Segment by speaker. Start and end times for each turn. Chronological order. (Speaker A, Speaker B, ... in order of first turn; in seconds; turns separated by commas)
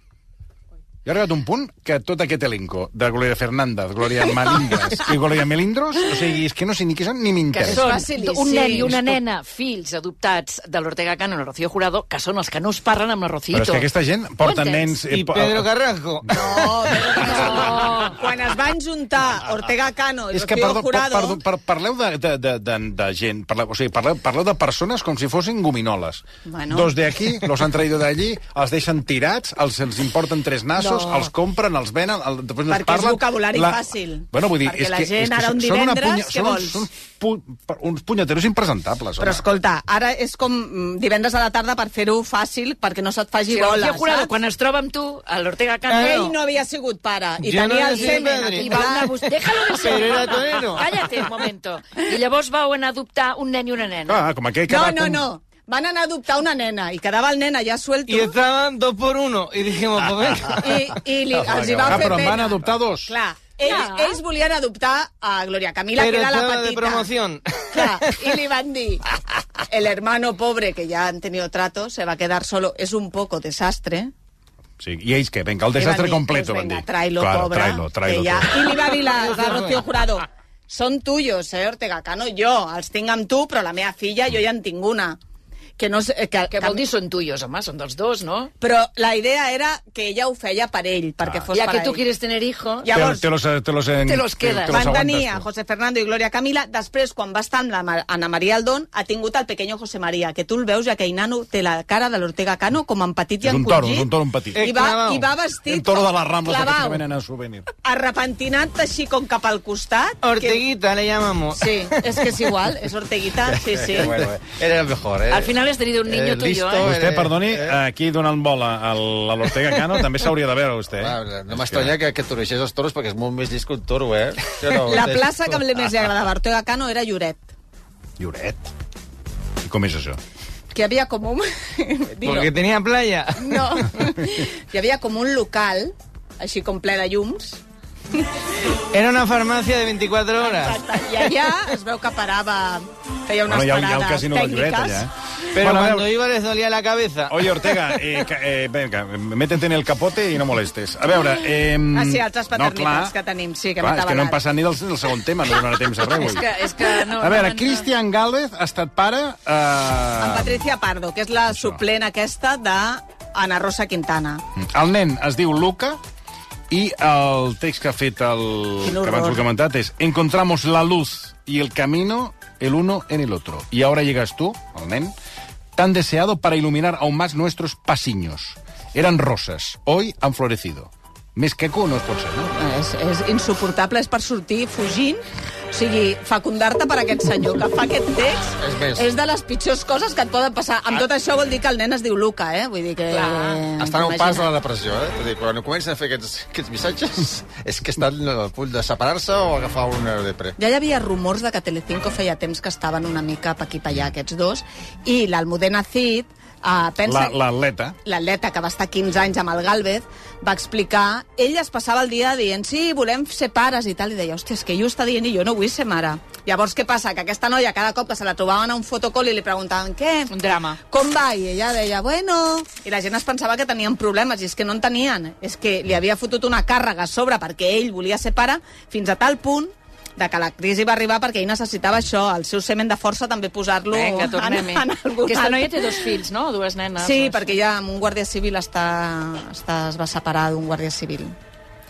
Speaker A: 1.0-7.8, Speaker B: 7.6-9.1, Speaker C: 7.6-13.9, Speaker A: 13.5-15.7, Speaker C: 14.4-14.9, Speaker D: 15.1-16.4, Speaker B: 16.3-21.4, Speaker C: 17.3-18.2, Speaker A: 20.3-39.4, Speaker B: 26.4-26.9, Speaker B: 30.8-31.3, Speaker B: 32.7-36.9, Speaker B: 39.2-44.3, Speaker C: 43.5-46.3, Speaker D: 45.9-46.3, Speaker B: 45.9-49.1, Speaker D: 47.4-48.9, Speaker C: 48.0-54.2, Speaker D: 49.7-50.9, Speaker A: 54.1-55.2, Speaker B: 54.7-58.4, Speaker D: 58.1-60.6, Speaker B: 60.5-67.1, Speaker A: 61.4-63.1, Speaker C: 63.6-64.2, Speaker D: 66.0-68.1, Speaker B: 67.7-69.0, Speaker B: 69.6-74.1, Speaker A: 74.8-78.9, Speaker B: 75.8-85.2, Speaker B: 85.8-86.8, Speaker C: 86.5-88.5, Speaker B: 88.6-92.0, Speaker C: 91.5-92.9, Speaker B: 92.8-93.2, Speaker A: 92.9-95.4, Speaker C: 94.0-94.8, Speaker B: 94.7-107.0, Speaker A: 103.4-104.6, Speaker D: 104.5-105.3, Speaker A: 105.7-107.7, Speaker B: 107.8-110.6, Speaker D: 110.2-112.3, Speaker B: 111.5-114.2, Speaker E: 113.6-117.8, Speaker C: 115.3-116.9, Speaker A: 116.8-122.0, Speaker E: 120.9-125.4, Speaker B: 124.9-127.5, Speaker A: 128.2-128.7, Speaker A: 129.6-130.2, Speaker B: 130.7-132.5, Speaker D: 132.2-133.9, Speaker B: 133.4-137.6, Speaker D: 138.9-140.8, Speaker B: 140.4-145.1, Speaker A: 143.5-146.1, Speaker D: 145.5-148.0, Speaker A: 147.3-153.1, Speaker B: 151.9-154.4, Speaker A: 153.8-156.5, Speaker C: 156.0-157.9, Speaker A: 157.1-160.6, Speaker B: 160.2-164.4, Speaker A: 161.5-161.8, Speaker A: 164.6-166.0, Speaker A: 166.7-175.1, Speaker B: 168.8-169.4, Speaker A: 175.8-182.5, Speaker B: 182.6-194.5, Speaker E: 188.6-189.1, Speaker C: 193.1-193.6, Speaker E: 193.8-200.5, Speaker B: 200.6-207.4, Speaker A: 207.0-208.0, Speaker B: 208.0-220.3, Speaker C: 220.3-220.8, Speaker B: 220.9-236.1, Speaker C: 233.9-237.5, Speaker B: 237.0-241.3